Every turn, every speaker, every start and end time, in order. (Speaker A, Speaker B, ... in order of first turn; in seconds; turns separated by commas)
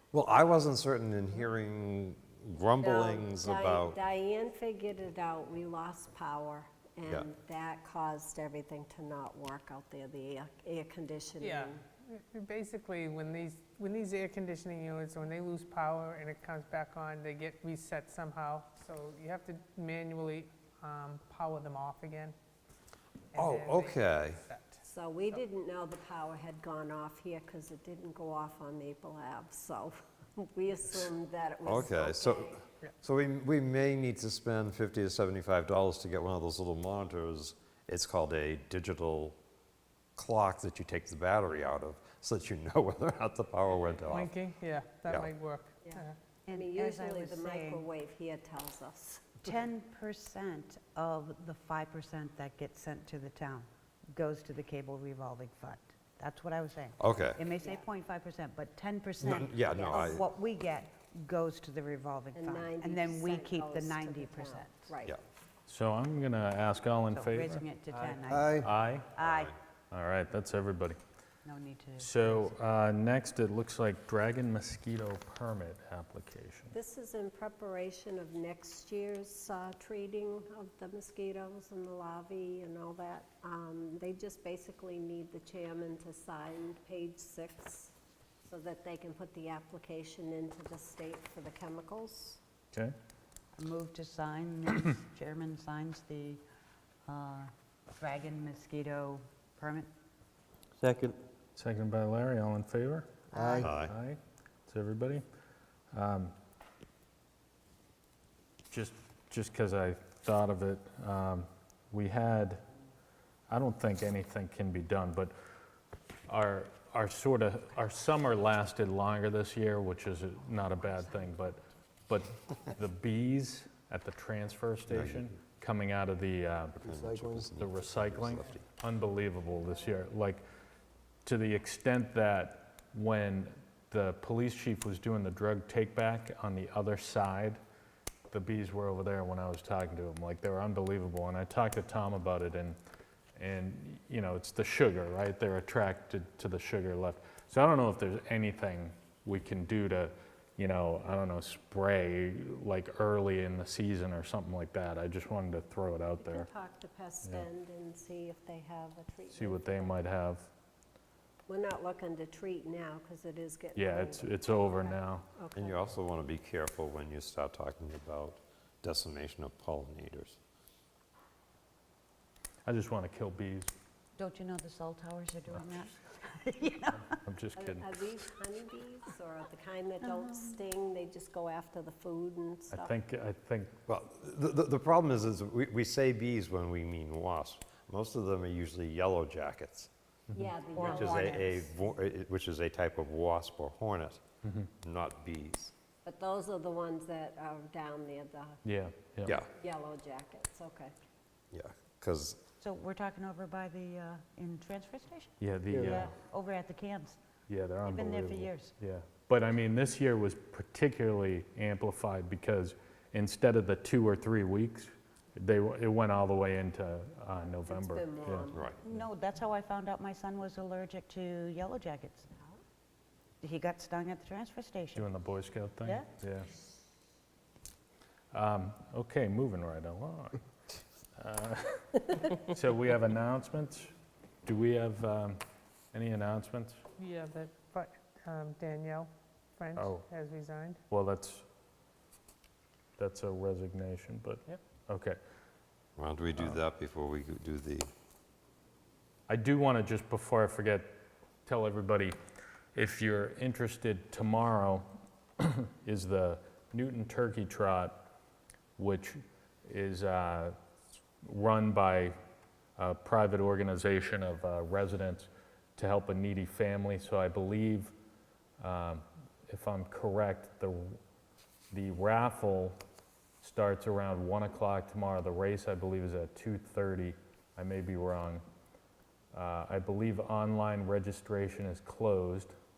Speaker A: 0.1-4.0, Speaker B: 2.8-11.8, Speaker C: 11.4-22.4, Speaker C: 23.3-24.8, Speaker A: 23.4-24.4, Speaker B: 24.8-32.6, Speaker A: 31.6-39.4, Speaker A: 40.2-44.3, Speaker C: 44.1-46.2, Speaker B: 45.8-49.6, Speaker D: 46.5-47.9, Speaker D: 49.4-64.9, Speaker A: 57.0-57.4, Speaker B: 57.6-57.9, Speaker A: 59.2-60.3, Speaker B: 59.7-60.0, Speaker B: 62.4-65.2, Speaker E: 65.7-67.7, Speaker D: 67.1-69.5, Speaker F: 68.2-68.7, Speaker E: 68.6-69.1, Speaker A: 69.2-69.6, Speaker E: 69.9-71.0, Speaker D: 71.5-72.5, Speaker E: 72.0-76.8, Speaker B: 76.7-88.0, Speaker B: 88.5-92.4, Speaker D: 93.6-96.4, Speaker D: 97.1-99.9, Speaker F: 100.9-101.2, Speaker E: 101.6-105.2, Speaker D: 103.3-103.7, Speaker F: 103.3-103.8, Speaker A: 103.6-103.9, Speaker E: 105.9-106.3, Speaker E: 108.7-112.6, Speaker E: 113.5-115.3, Speaker E: 116.3-126.8, Speaker A: 124.9-125.4, Speaker A: 126.8-128.7, Speaker F: 126.8-127.5, Speaker E: 127.5-130.4, Speaker E: 131.2-137.6, Speaker E: 138.3-142.8, Speaker E: 143.4-156.5, Speaker B: 156.2-160.1, Speaker E: 159.3-160.5, Speaker B: 161.5-166.0, Speaker E: 163.8-165.2, Speaker A: 165.6-170.4, Speaker E: 172.7-173.7, Speaker D: 174.2-177.2, Speaker E: 177.2-177.9, Speaker B: 177.6-182.9, Speaker E: 182.7-183.7, Speaker A: 183.9-189.9, Speaker E: 190.3-190.9, Speaker B: 190.3-191.6, Speaker D: 190.7-191.6, Speaker A: 190.8-194.2, Speaker E: 194.4-194.7, Speaker A: 194.8-195.7, Speaker B: 196.1-198.6, Speaker E: 198.7-199.4, Speaker B: 199.6-200.9, Speaker A: 201.5-202.4, Speaker D: 202.6-207.2, Speaker E: 205.4-206.1, Speaker F: 205.7-206.1, Speaker E: 207.5-218.5, Speaker D: 207.8-208.7, Speaker B: 217.5-218.7, Speaker D: 218.8-222.3, Speaker D: 223.4-225.1, Speaker E: 224.9-226.5, Speaker E: 228.3-230.4, Speaker E: 231.2-233.9, Speaker E: 234.4-235.4, Speaker E: 235.9-236.8, Speaker C: 237.0-240.8, Speaker E: 239.8-240.1, Speaker E: 240.9-241.4, Speaker E: 243.0-245.2, Speaker A: 246.0-247.9, Speaker E: 249.3-252.2, Speaker E: 252.8-254.9, Speaker E: 255.4-258.1, Speaker E: 258.8-260.6, Speaker E: 261.2-262.1, Speaker E: 262.8-267.9, Speaker E: 268.6-271.0, Speaker E: 271.7-272.8, Speaker E: 273.4-278.4, Speaker E: 279.3-282.5